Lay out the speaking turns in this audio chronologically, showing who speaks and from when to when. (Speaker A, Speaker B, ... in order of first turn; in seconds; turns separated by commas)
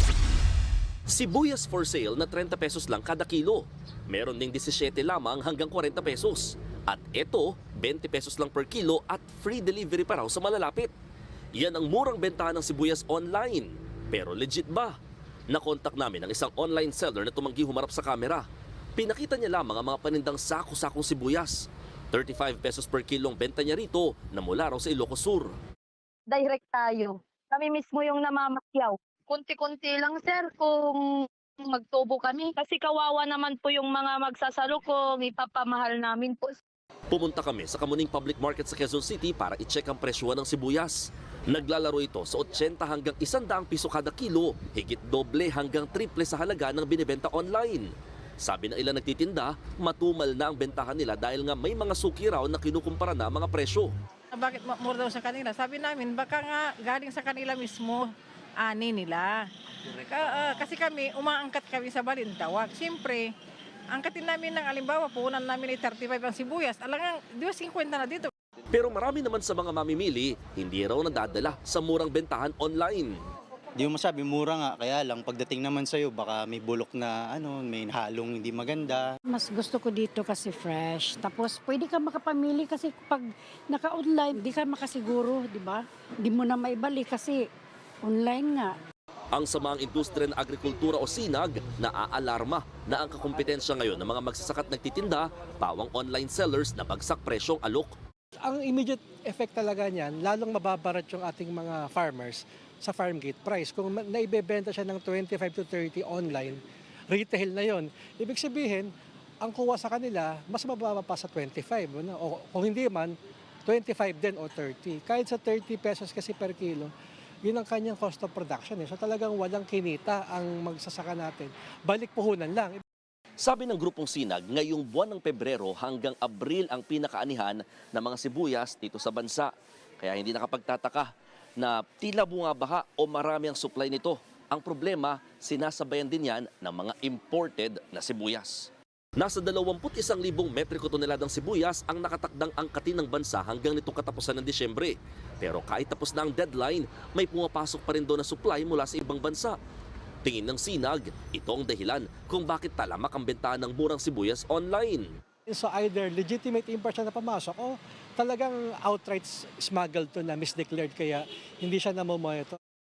Speaker A: 1.1-10.9, Speaker A: 11.6-15.0, Speaker A: 15.5-18.4, Speaker A: 19.0-25.6, Speaker B: 26.3-31.0, Speaker B: 31.6-36.6, Speaker A: 37.1-53.9, Speaker C: 54.3-59.5, Speaker C: 60.0-63.3, Speaker C: 63.9-68.3, Speaker A: 68.7-73.2, Speaker D: 73.8-79.1, Speaker E: 79.3-87.5, Speaker E: 88.1-88.7, Speaker A: 89.3-97.9, Speaker F: 98.4-106.6, Speaker F: 107.1-108.9, Speaker F: 109.4-113.2, Speaker F: 113.7-116.9, Speaker F: 117.4-122.8, Speaker A: 123.4-149.6, Speaker A: 150.2-155.1, Speaker F: 155.5-162.6